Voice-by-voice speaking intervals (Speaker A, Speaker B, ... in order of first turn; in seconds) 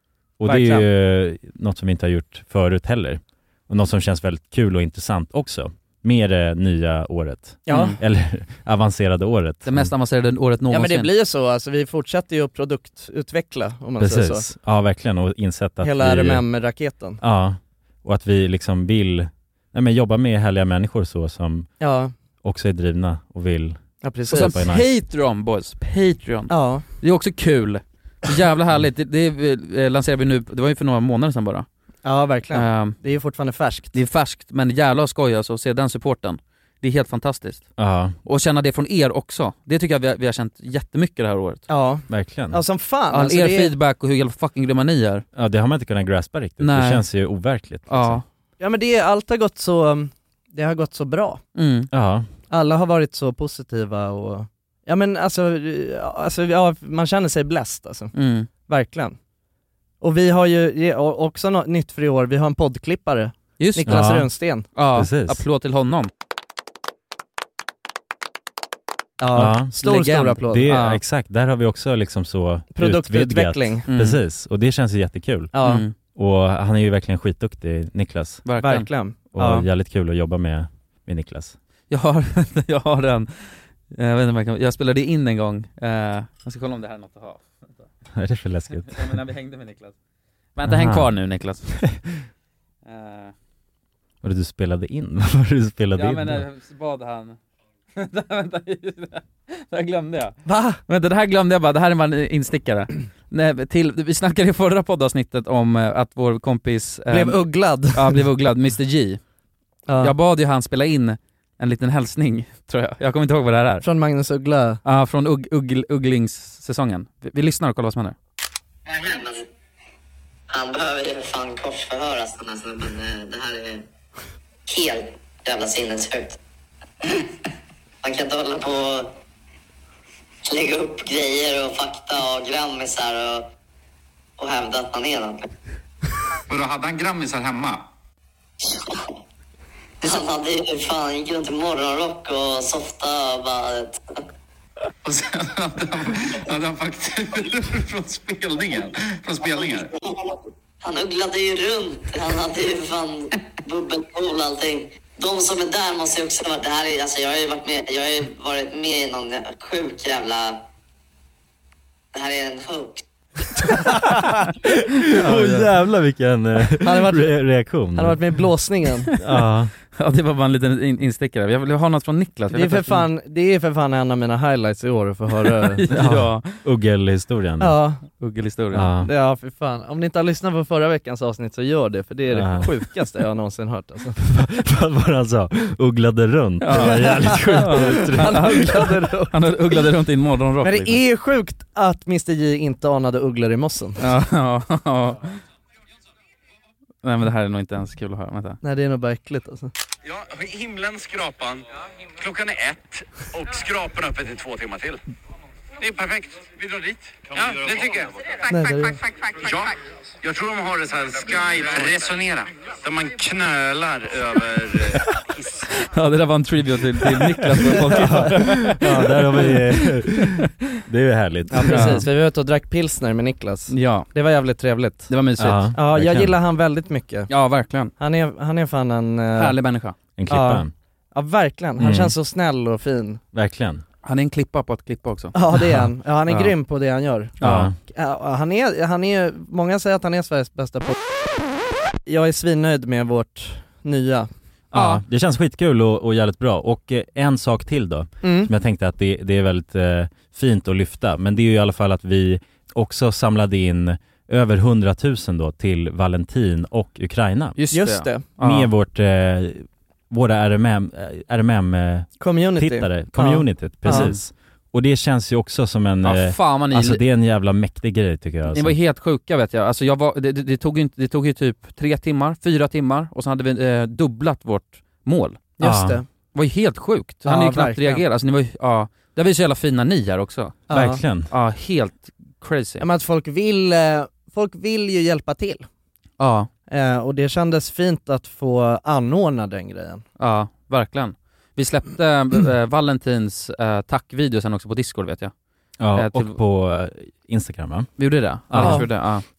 Speaker A: 0.4-9.9, 14.0-16.4, 17.2-21.7, 22.4-24.9, 37.8-38.1, 42.1-42.6, 45.4-48.2, 51.9-52.3, 63.9-64.3, 65.0-65.4, 69.3-69.7, 70.5-75.5, 76.1-78.4, 79.3-81.6, 88.2-89.0, 90.7-91.1, 94.2-96.4, 165.0-168.2, 169.2-169.7, 175.9-177.8, 178.7-179.1, 182.3-182.7, 184.2-188.9, 217.9-222.0, 225.4-226.3, 230.2-230.7, 231.8-232.1, 233.3-233.8, 237.4-237.8, 244.7-257.6, 258.4-268.8, 275.6-276.0, 280.7-281.3, 295.8-297.9, 298.5-298.8
Speaker B: 0.5-0.9, 7.7-8.0, 10.7-14.5, 15.8-17.2, 21.8-22.1, 24.0-24.6, 26.5-26.9, 32.0-34.0, 41.7-43.7, 48.6-51.4, 52.5-58.1, 58.7-59.2, 60.0-64.7, 69.2-70.7, 72.7-73.8, 75.5-75.8, 78.6-79.7, 100.5-100.8, 107.1-108.2, 109.9-110.1, 113.8-114.8, 166.8-167.4, 167.9-169.1, 172.5-175.8, 177.6-178.0, 179.0-184.2, 186.7-189.4, 190.6-194.0, 198.6-199.7, 208.5-209.0, 218.9-219.5, 221.5-225.1, 225.8-227.3, 228.0-229.6, 230.3-233.2, 235.3-240.9, 242.1-244.3, 248.2-248.5, 257.7-258.3, 262.2-264.1, 275.6-276.1, 277.2-278.0, 280.7-281.0, 282.8-285.7, 286.7-290.1, 298.6-298.9
Speaker C: 7.7-8.0, 9.7-11.1, 24.3-31.7, 32.5-33.0, 33.9-37.7, 38.2-41.6, 43.1-45.2, 46.6-47.0, 47.9-48.2, 51.6-51.9, 58.1-58.5, 63.6-64.1, 64.8-66.1, 69.8-71.0, 73.9-74.2, 75.6-75.9, 78.5-78.9, 81.9-87.9, 88.9-90.0, 90.6-91.7, 92.8-93.3, 96.0-97.4, 98.0-109.2, 110.0-113.8, 114.8-118.2, 165.2-165.6, 169.9-173.1, 175.6-176.6, 178.2-178.9, 186.6-191.0, 194.0-195.4, 197.0-198.6, 215.8-219.4, 221.6-222.1, 223.7-224.1, 225.1-225.7, 227.3-227.9, 229.4-230.0, 234.0-235.4, 236.3-236.5, 237.4-237.7, 244.7-245.0, 257.6-258.7, 263.9-264.2, 266.0-267.0, 268.5-275.5, 276.3-280.6, 281.3-282.9, 286.2-286.5, 290.2-295.3, 295.9-296.4, 298.0-299.2
Speaker D: 118.9-119.5, 120.5-123.8, 124.7-126.4, 128.0-129.1, 130.5-133.5, 134.4-135.5, 140.0-144.0, 150.8-160.6, 162.1-163.0
Speaker E: 136.5-137.9, 145.0-149.9
Speaker F: 200.0-201.6, 202.2-205.0, 205.8-208.1, 209.4-215.1